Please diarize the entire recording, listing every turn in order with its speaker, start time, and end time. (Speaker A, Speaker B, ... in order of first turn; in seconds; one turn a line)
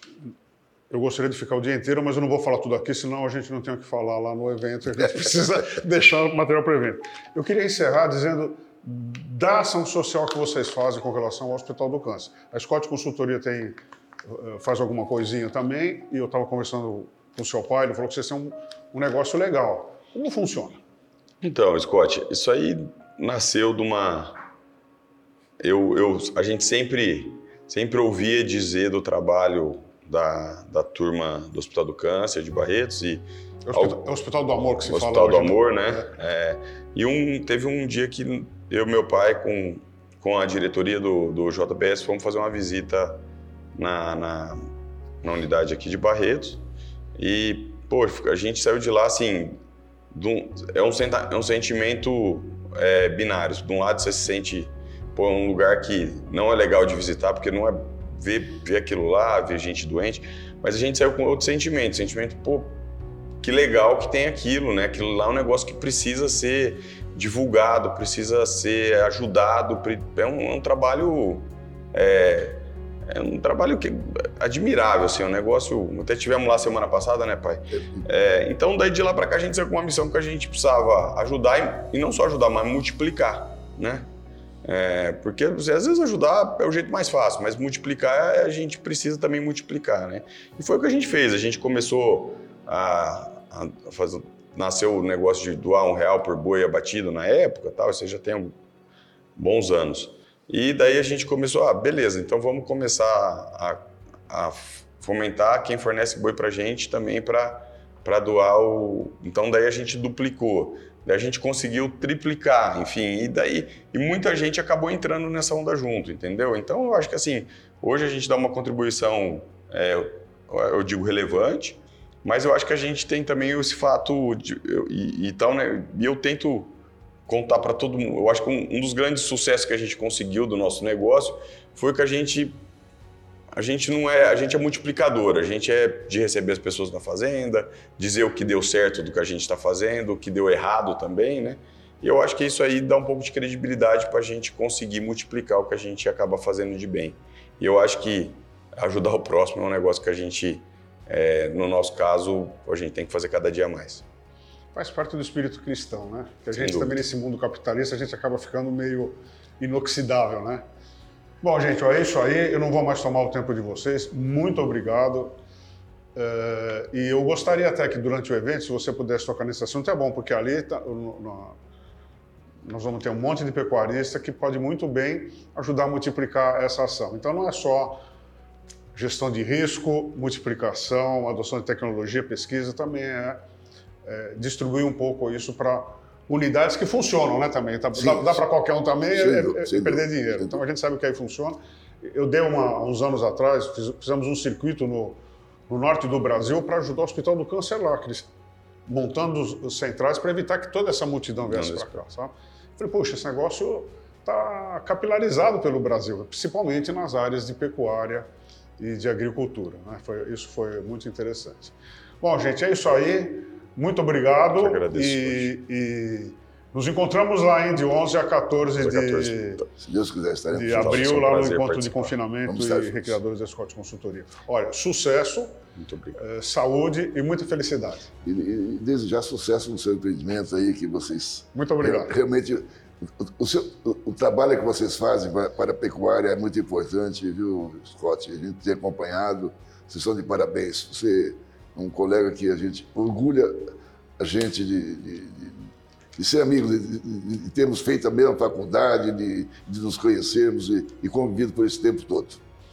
Speaker A: 0.9-13.8
Speaker A: 14.3-20.8
Speaker B: 21.4-24.4
Speaker B: 25.6-34.1
Speaker A: 33.7-36.1
Speaker B: 34.8-43.2
Speaker B: 43.7-44.7
Speaker B: 45.2-46.6
Speaker B: 47.2-49.6
Speaker B: 50.1-62.8
Speaker B: 63.4-84.1
Speaker C: 77.7-78.0
Speaker B: 84.6-98.5
Speaker B: 99.4-126.7
Speaker B: 127.3-132.6
Speaker B: 133.5-154.0
Speaker A: 154.7-160.6
Speaker B: 156.5-156.9
Speaker A: 161.4-165.3
Speaker A: 166.1-171.6
Speaker A: 172.6-178.0
Speaker A: 178.9-183.4
Speaker A: 184.0-198.3
Speaker C: 187.9-188.4
Speaker C: 189.1-190.4
Speaker A: 198.9-219.6
Speaker B: 201.4-202.0
Speaker B: 214.5-215.5
Speaker B: 218.8-219.7
Speaker C: 219.8-221.2
Speaker A: 220.5-225.5
Speaker B: 220.7-222.1
Speaker C: 222.4-223.2
Speaker B: 225.8-226.2
Speaker A: 226.2-228.1
Speaker C: 228.2-252.4
Speaker A: 231.5-232.1